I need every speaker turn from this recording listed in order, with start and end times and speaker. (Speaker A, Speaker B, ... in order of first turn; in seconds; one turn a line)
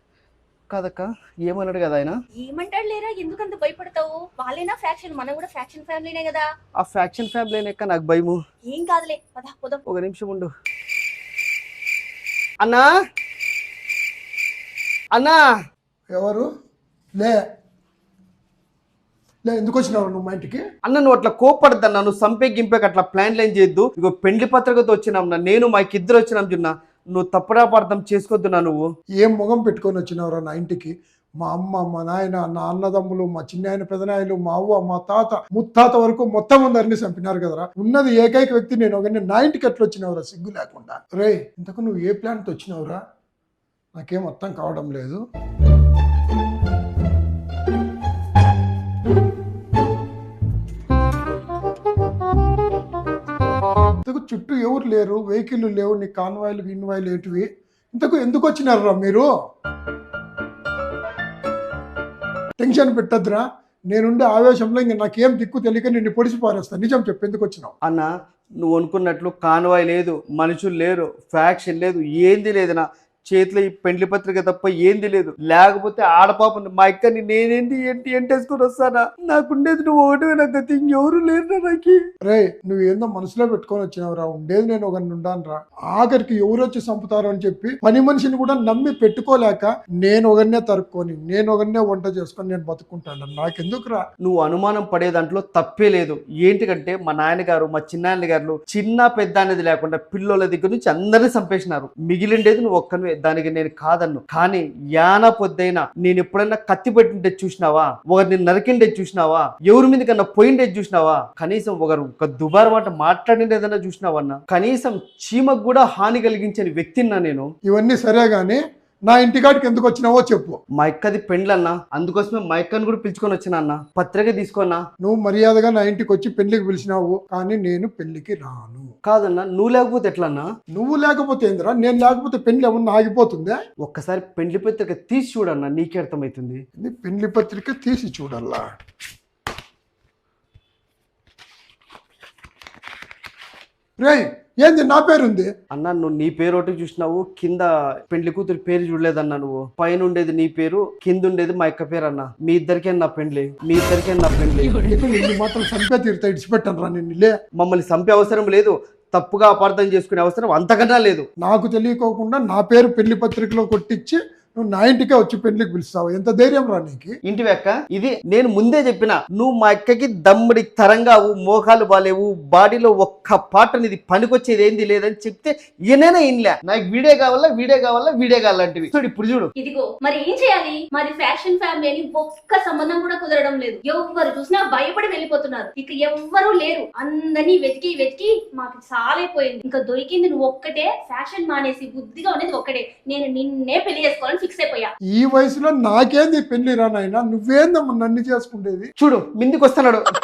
Speaker A: 0.7-2.2
Speaker B: 2.4-6.5
Speaker A: 6.8-8.4
Speaker B: 8.7-9.8
Speaker A: 9.9-10.5
Speaker A: 12.6-12.9
Speaker A: 15.2-15.4
Speaker C: 16.1-16.5
Speaker C: 19.5-20.6
Speaker A: 20.9-28.8
Speaker C: 29.2-43.0
Speaker C: 44.0-45.2
Speaker C: 54.1-59.3
Speaker C: 62.6-67.7
Speaker A: 67.8-82.0
Speaker C: 82.2-94.0
Speaker A: 94.2-117.5
Speaker C: 117.7-120.6
Speaker A: 120.8-124.8
Speaker C: 125.0-128.9
Speaker A: 129.1-130.5
Speaker C: 130.7-133.6
Speaker A: 133.8-136.6
Speaker C: 136.8-138.7
Speaker C: 144.0-145.5
Speaker A: 145.7-154.7
Speaker C: 154.8-157.3
Speaker A: 157.6-161.3
Speaker C: 161.4-167.1
Speaker A: 167.3-179.5
Speaker B: 179.6-194.9
Speaker C: 195.1-198.9
Speaker A: 199.0-200.0